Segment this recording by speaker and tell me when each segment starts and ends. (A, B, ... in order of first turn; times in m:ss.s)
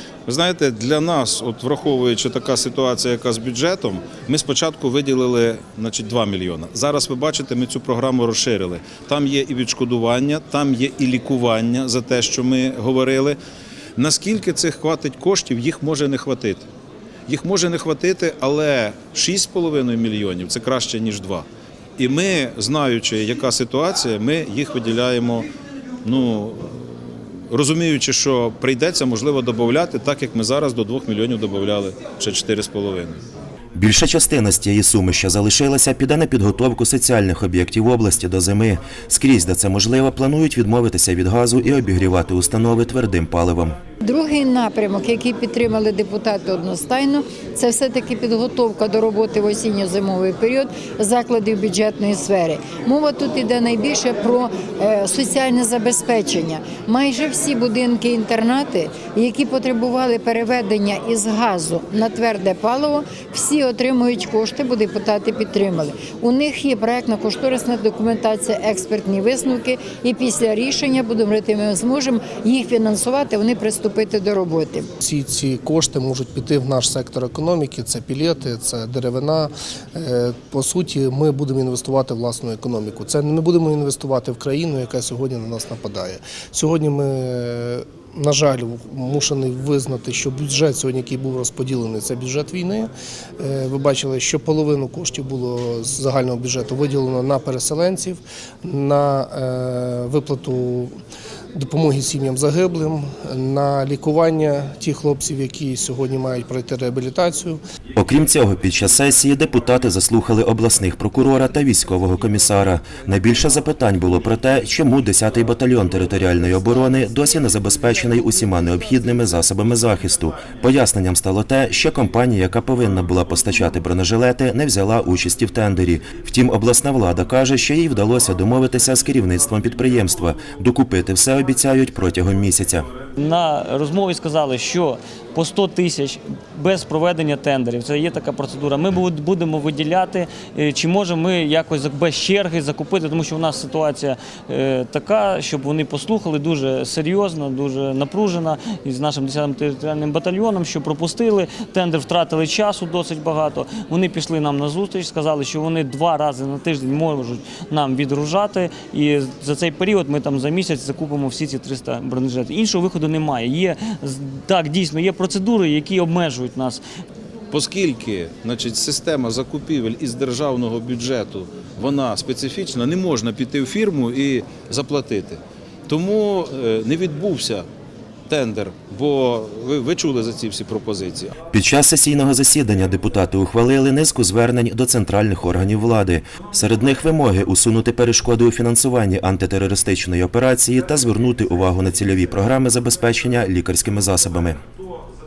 0:00.3-0:13.4 A
0:14.0-0:16.7 A
0:17.3-0:21.5 A
0:22.0-0:25.5 A
0:26.0-0:26.7 A
0:27.5-0:33.2 A
0:33.7-0:43.8 B
0:44.0-1:14.9 C
1:15.0-1:40.9 D
1:41.6-1:47.6 D
1:48.0-2:12.9 B
2:13.2-2:46.8 E
2:47.5-2:57.7 A
2:58.3-3:01.3 A
3:01.5-3:14.6 B